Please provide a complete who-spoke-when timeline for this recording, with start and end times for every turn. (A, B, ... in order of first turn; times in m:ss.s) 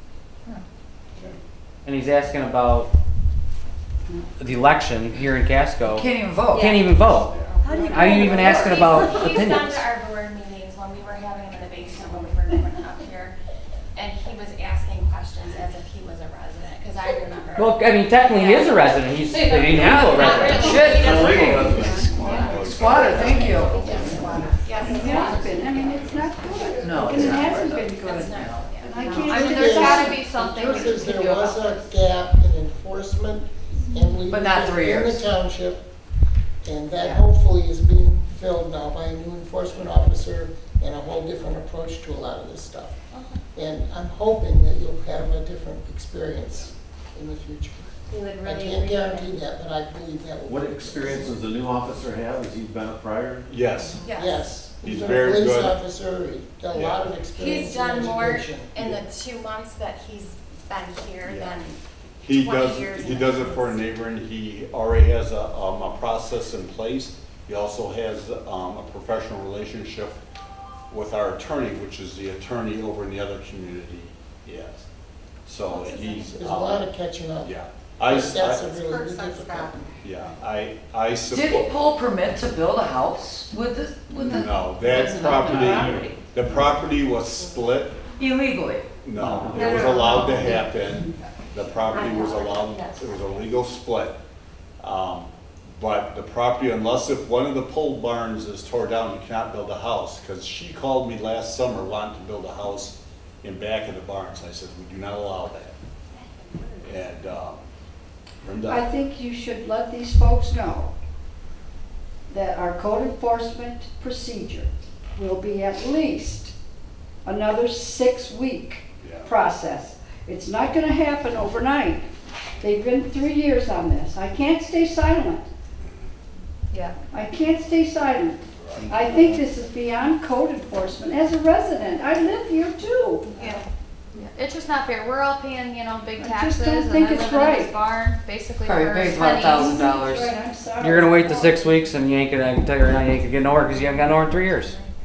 0:01.8-0:02.9 A
0:04.4-0:07.4 A
0:05.8-0:06.7 B
0:06.5-0:13.4 C
0:07.1-0:07.6 D
0:07.9-0:09.8 A
0:13.9-0:18.8 C
0:17.5-0:21.0 A
0:19.4-0:21.7 B
0:19.7-0:25.9 C
0:19.8-0:20.1 E
0:20.6-0:22.2 E
0:21.9-0:24.5 D
0:22.5-0:24.2 B
0:23.1-0:23.6 A
0:24.1-0:30.8 F
0:26.8-0:28.6 B
0:27.0-0:27.4 D
0:27.9-0:29.5 C
0:29.2-0:31.9 G
0:29.3-0:35.8 H
0:34.3-0:35.2 B
0:36.6-0:42.9 H
0:43.5-0:51.4 H
0:48.1-0:49.3 C
0:50.4-0:53.9 E
0:53.5-0:54.0 D
0:54.0-0:54.4 C
0:54.1-0:58.8 H
0:54.6-0:55.8 D
0:56.7-0:57.3 D
0:57.4-1:03.8 C
1:01.2-1:01.6 D
1:02.2-1:10.2 D
1:10.9-1:14.8 D
1:15.4-1:16.9 D
1:16.0-1:19.9 H
1:17.4-1:18.8 D
1:18.8-1:19.8 C
1:20.0-1:21.7 D
1:21.3-1:26.1 B
1:24.2-1:28.0 D
1:25.5-1:25.8 E
1:28.2-1:28.9 B
1:29.0-1:34.2 D
1:29.2-1:29.8 E
1:29.6-1:30.0 C
1:31.9-1:33.1 C
1:34.8-1:45.7 D
1:46.1-1:46.8 C
1:46.8-1:47.6 D
1:48.4-1:48.9 D
1:48.7-1:50.9 F
1:52.3-1:56.5 F
1:57.2-2:02.1 F
1:59.0-1:59.3 D
2:02.6-2:05.5 F
2:07.1-2:13.3 F
2:08.6-2:09.0 D
2:13.4-2:13.6 G
2:14.1-2:19.8 G
2:16.2-2:17.7 F
2:18.6-2:20.3 B
2:19.4-2:21.7 F
2:20.8-2:24.7 A